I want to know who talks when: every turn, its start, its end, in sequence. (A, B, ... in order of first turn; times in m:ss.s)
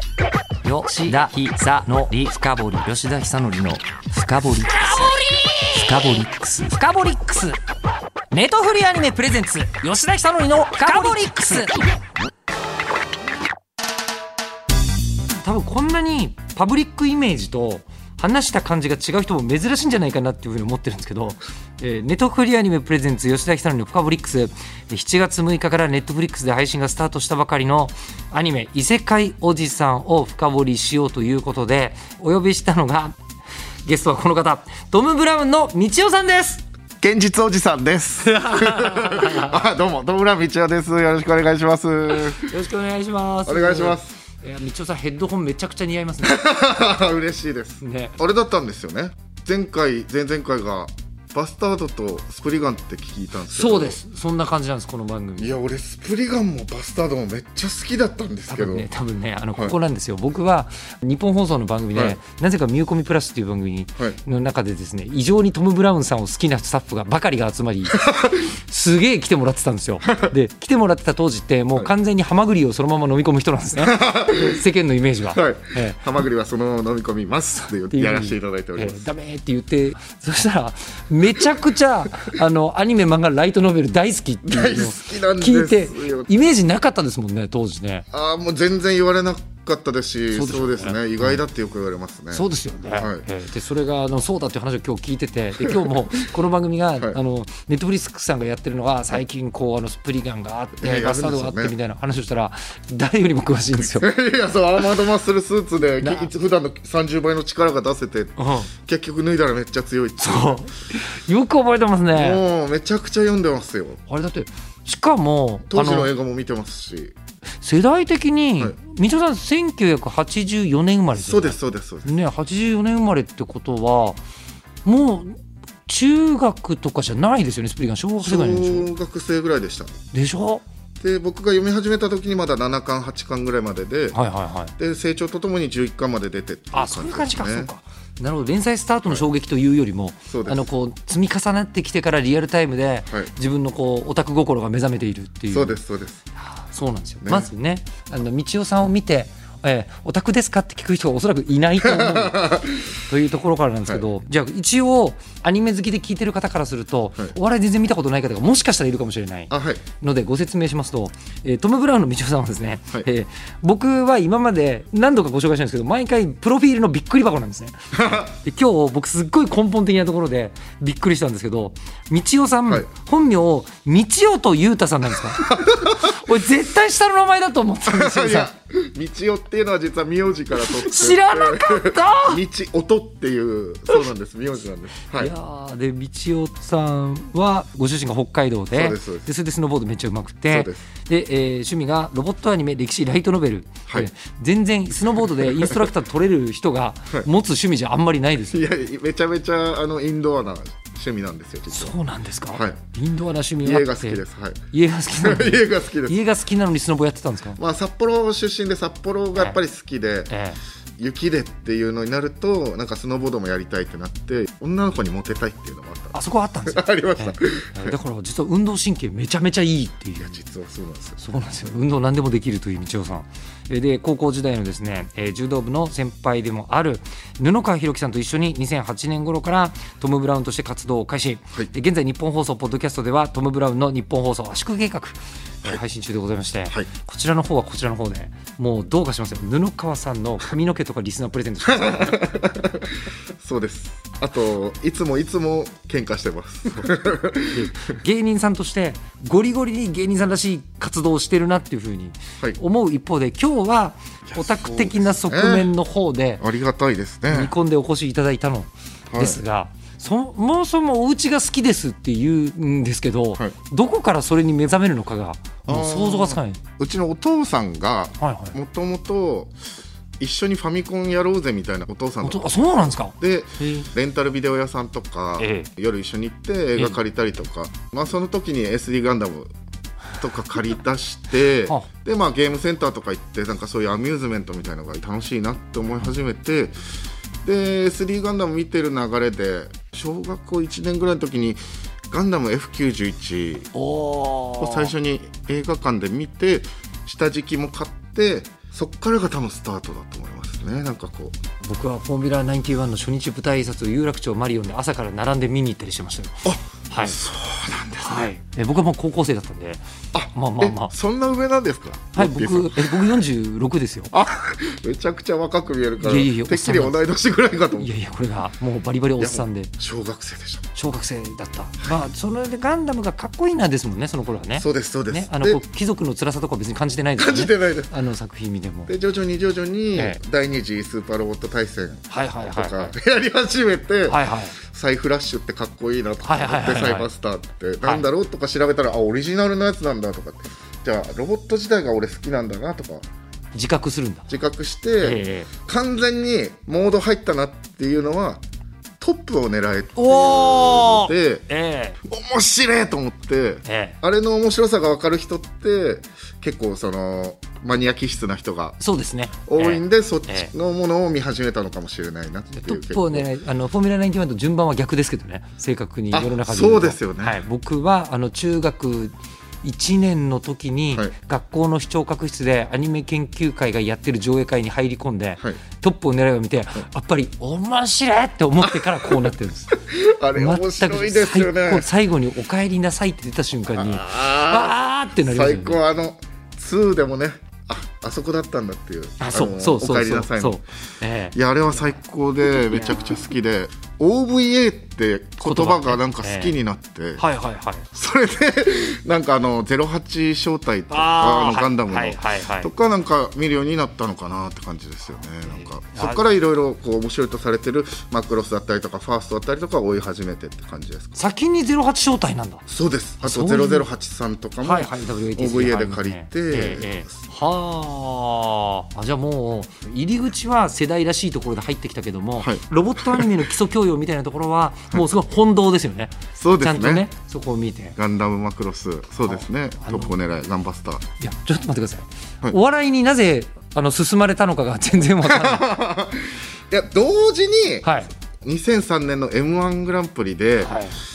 0:00.6-0:07.6 A
0:08.3-0:11.8 A
0:15.4-0:33.2 A
0:33.9-0:36.6 A
0:37.0-0:42.5 B
0:38.2-0:39.6 A
0:42.1-0:46.4 A
0:43.5-0:44.2 B
0:46.2-0:54.0 B
0:47.8-0:48.2 A
0:53.5-0:55.6 A
0:55.4-0:58.9 B
0:58.5-1:16.0 A
1:07.9-1:08.5 B
1:13.8-1:14.6 B
1:15.3-1:19.1 B
1:17.9-1:28.1 A
1:24.4-1:26.4 B
1:28.1-1:33.2 B
1:30.3-1:31.4 A
1:32.3-1:44.1 A
1:35.7-1:35.9 B
1:40.8-1:41.7 B
1:43.9-1:50.6 B
1:46.0-1:46.3 A
1:48.4-1:48.7 A
1:50.2-1:52.4 A
1:52.1-1:54.0 B
1:54.1-1:56.1 A
1:55.7-1:57.2 B
1:57.6-2:04.2 A
2:01.2-2:02.1 B
2:04.8-2:08.9 A
2:08.2-2:10.0 B
2:10.1-2:10.6 A
2:11.0-2:14.2 B
2:14.1-2:14.7 A
2:14.8-2:17.7 B
2:16.7-2:25.8 A
2:20.3-2:20.7 B
2:25.5-2:26.2 B
2:26.4-2:58.5 A
2:27.2-2:27.5 B
2:31.8-2:32.9 B
2:39.5-2:39.8 B
2:47.9-2:48.3 B
2:55.4-2:56.1 B
2:57.8-3:05.3 B
3:00.6-3:02.4 A
3:05.2-3:18.6 A
3:08.7-3:09.3 B
3:10.5-3:10.8 B
3:18.5-3:21.9 B
3:21.7-3:27.6 A
3:23.6-3:24.6 B
3:25.2-3:26.2 B
3:27.6-3:30.3 B
3:30.3-3:30.6 A
3:31.0-3:36.2 B
3:36.1-3:40.4 A
3:36.7-3:38.0 B
3:40.2-3:41.2 B
3:41.2-4:02.6 A
4:01.7-4:07.7 B
4:07.5-4:16.4 A
4:14.3-4:15.7 B
4:16.4-4:17.5 B
4:17.3-4:26.6 A
4:19.1-4:19.4 B
4:25.7-4:29.5 B
4:28.2-4:28.6 A
4:30.2-4:32.6 B
4:32.2-4:33.9 A
4:33.2-4:39.5 B
4:35.4-4:35.7 A
4:40.2-4:46.8 B
4:47.4-4:51.6 B
4:52.1-4:53.7 B
4:53.7-4:54.9 A
4:54.6-5:01.4 B
5:01.6-5:07.2 A
5:06.4-5:08.3 B
5:08.0-5:10.9 A
5:10.1-5:13.2 B
5:12.1-5:14.1 A
5:14.1-5:17.9 B
5:16.0-5:17.0 A
5:17.8-5:19.7 A
5:19.2-5:20.7 B
5:20.8-5:28.9 A
5:24.6-5:25.6 B
5:27.2-5:27.9 B
5:28.9-5:43.1 B
5:32.1-5:33.0 A
5:34.1-5:34.6 A
5:36.2-5:37.1 A
5:43.5-5:44.3 A
5:44.3-5:48.4 B
5:45.0-5:45.5 A
5:49.0-5:51.4 B
5:50.0-5:52.0 A
5:52.0-5:58.8 B
5:53.7-5:54.0 A
5:58.8-6:00.5 A
5:59.5-6:03.3 B
6:02.5-6:19.8 A
6:06.1-6:07.4 B
6:18.6-6:21.9 B
6:20.4-6:25.8 A
6:23.7-6:30.6 B
6:29.2-6:31.4 A
6:31.3-6:37.2 B
6:32.5-6:33.2 A
6:35.4-6:36.5 A
6:37.2-6:37.9 A
6:37.9-6:51.2 B
6:40.9-6:42.7 A
6:45.5-6:46.3 A
6:51.2-6:52.6 A
6:52.7-6:57.1 B
6:53.2-6:53.9 A
6:54.6-7:08.0 A
7:02.4-7:03.4 B
7:06.4-7:07.1 B
7:08.0-7:11.1 B
7:09.3-7:10.1 A
7:11.2-7:15.7 A
7:15.2-7:20.8 B
7:17.8-7:18.1 A
7:20.6-7:21.0 A